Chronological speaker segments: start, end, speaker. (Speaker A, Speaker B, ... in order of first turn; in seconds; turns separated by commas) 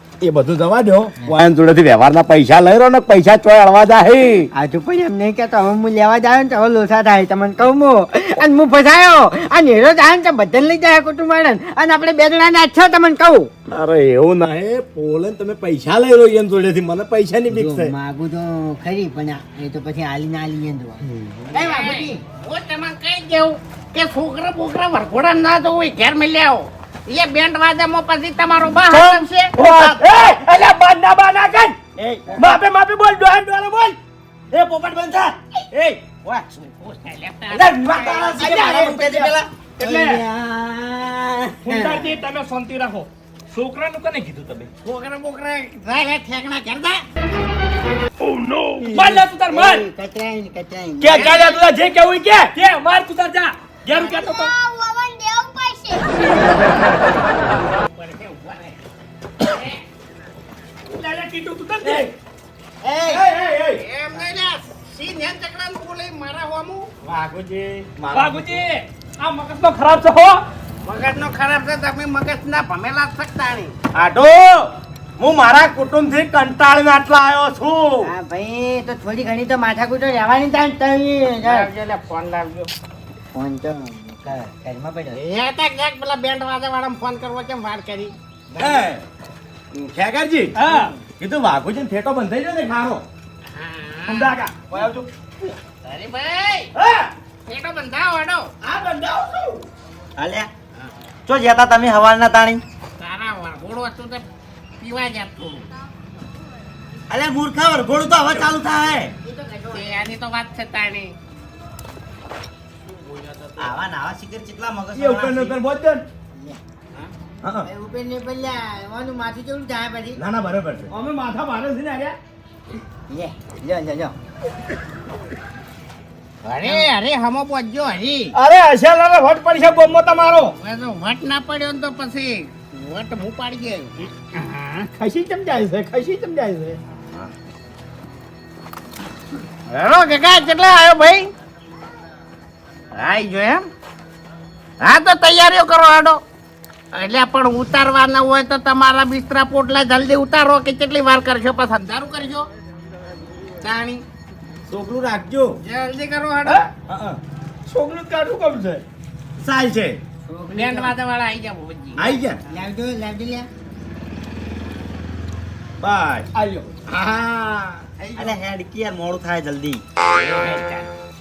Speaker A: 0.2-4.5, Speaker B: 4.5-13.5, Speaker A: 13.7-17.9, Speaker B: 17.5-22.2, Speaker C: 21.5-29.9, Speaker A: 28.9-34.0, Speaker A: 34.5-36.5, Speaker C: 36.5-38.8, Speaker A: 37.5-40.2, Speaker B: 38.4-42.2, Speaker D: 41.7-44.7, Speaker C: 44.8-47.0, Speaker D: 48.8-49.9, Speaker B: 48.8-51.5, Speaker A: 51.0-52.5, Speaker C: 51.1-51.5, Speaker D: 52.5-54.5, Speaker E: 53.9-56.4, Speaker C: 57.7-58.8, Speaker C: 59.4-59.8, Speaker D: 60.9-62.1, Speaker A: 61.8-62.1, Speaker B: 62.8-63.3, Speaker A: 63.1-63.8, Speaker C: 63.8-66.9, Speaker A: 67.0-68.5, Speaker D: 68.1-70.4, Speaker C: 70.8-73.8, Speaker A: 73.9-78.1, Speaker B: 78.0-81.7, Speaker C: 81.4-82.7, Speaker B: 83.3-85.2, Speaker C: 85.1-88.1, Speaker B: 88.5-88.8, Speaker A: 88.6-89.0, Speaker A: 89.7-90.6, Speaker D: 90.6-90.9, Speaker A: 91.2-93.0, Speaker C: 93.5-94.4, Speaker A: 94.1-95.1, Speaker C: 95.8-96.7, Speaker A: 96.8-97.1, Speaker C: 97.5-98.5, Speaker A: 98.6-99.6, Speaker F: 100.2-100.5, Speaker F: 101.3-102.6, Speaker A: 101.3-101.8, Speaker C: 103.0-104.2, Speaker C: 104.8-105.7, Speaker F: 107.1-109.1, Speaker A: 108.1-108.6, Speaker B: 109.2-110.0, Speaker C: 109.7-111.1, Speaker C: 113.0-113.5, Speaker F: 113.6-115.6, Speaker A: 114.9-116.0, Speaker B: 116.3-116.6, Speaker A: 117.4-117.7, Speaker B: 117.6-120.2, Speaker A: 120.2-122.2, Speaker B: 123.1-124.2, Speaker C: 126.4-128.3, Speaker A: 128.4-130.5, Speaker C: 130.6-134.9, Speaker A: 135.0-136.8, Speaker C: 139.7-141.3, Speaker C: 142.9-143.7, Speaker C: 144.8-146.2, Speaker C: 146.9-152.5, Speaker C: 153.6-154.0, Speaker A: 154.7-155.6, Speaker C: 155.6-156.7, Speaker A: 156.5-158.8, Speaker A: 159.4-160.0, Speaker B: 160.3-161.0, Speaker C: 160.6-162.1, Speaker A: 162.0-162.4, Speaker B: 162.5-163.5, Speaker A: 165.8-168.4, Speaker C: 168.0-168.4, Speaker F: 168.2-169.8, Speaker C: 170.2-170.9